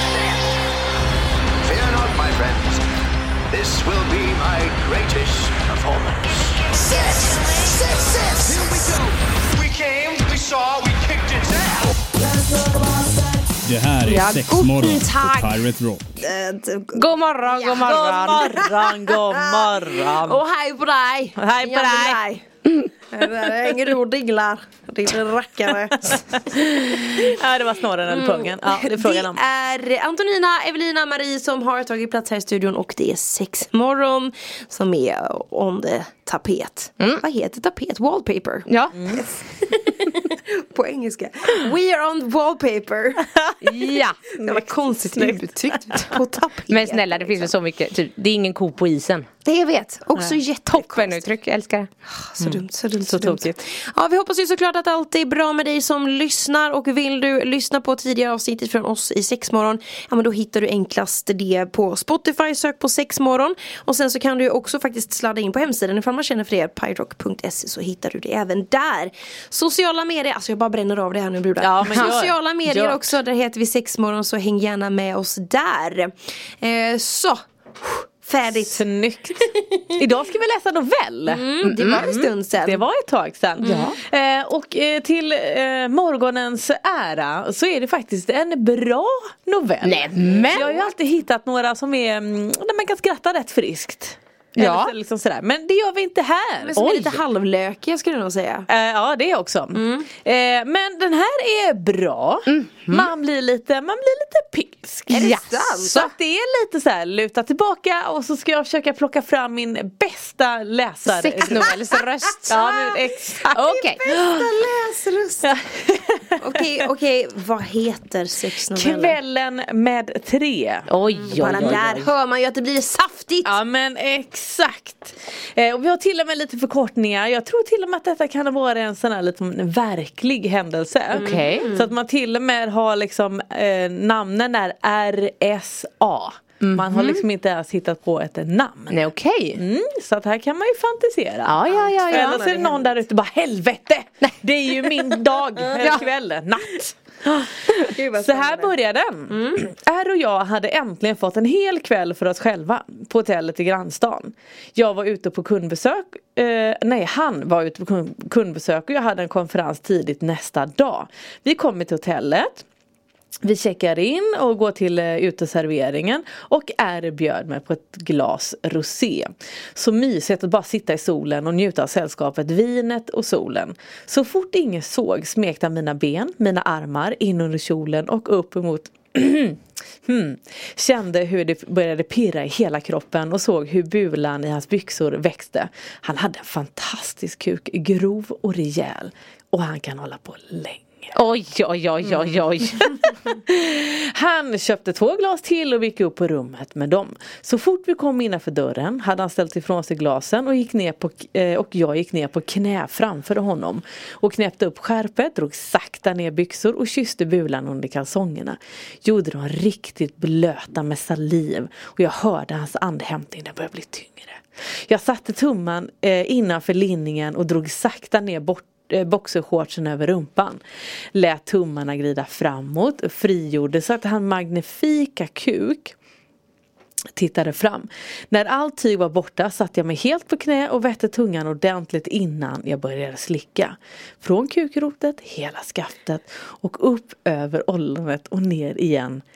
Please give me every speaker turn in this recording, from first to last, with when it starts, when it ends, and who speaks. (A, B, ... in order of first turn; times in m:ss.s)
0:01.6-0:02.8 A
0:03.5-0:09.0 A
0:09.6-0:11.9 A
0:13.6-0:16.1 B
0:14.0-0:15.6 C
0:16.2-0:22.4 C
0:16.9-0:18.4 D
0:17.8-0:20.4 E
0:21.4-0:22.2 E
0:23.1-0:26.5 C
0:26.5-0:29.4 E
0:28.1-0:43.3 C
0:38.7-0:39.0 D
0:38.9-0:39.2 E
0:43.4-0:46.2 E
0:43.6-0:44.2 D
0:44.4-0:47.5 C
0:46.7-0:49.3 D
0:49.5-0:51.2 C
0:50.2-0:51.9 D
0:52.1-1:18.8 C
0:52.4-0:53.6 E
1:11.6-1:13.0 E
1:18.5-1:36.8 E
1:19.4-1:19.9 C
1:21.3-1:22.9 C
1:21.6-1:22.0 D
1:23.6-1:24.0 D
1:29.8-1:30.6 D
1:34.6-1:34.9 D
1:36.6-1:38.7 C
1:36.8-1:37.2 D
1:38.7-1:45.3 E
1:39.7-1:40.1 C
1:42.5-1:43.1 D
1:45.1-1:46.0 C
1:45.2-1:46.1 D
1:45.8-1:51.8 E
1:51.1-1:54.0 D
1:52.4-1:54.4 E
1:52.5-1:53.0 C
1:53.6-1:55.5 C
1:55.4-1:56.6 E
1:56.4-1:59.2 C
1:58.7-2:00.9 E
2:00.9-2:02.1 D
2:01.3-2:03.6 C
2:01.4-2:01.8 E
2:03.4-2:19.0 E
2:11.1-2:11.7 D
2:11.2-2:11.9 C
2:16.6-2:17.2 D
2:18.9-2:19.6 D
2:19.6-2:42.6 E
2:21.4-2:22.4 D
2:21.7-2:23.0 C
2:25.8-2:26.0 D
2:27.8-2:28.7 C
2:29.3-2:29.6 C
2:43.4-3:11.2 E
3:11.2-3:13.0 D
3:12.1-3:40.6 E
3:41.2-3:46.0 E
3:47.2-3:59.2 E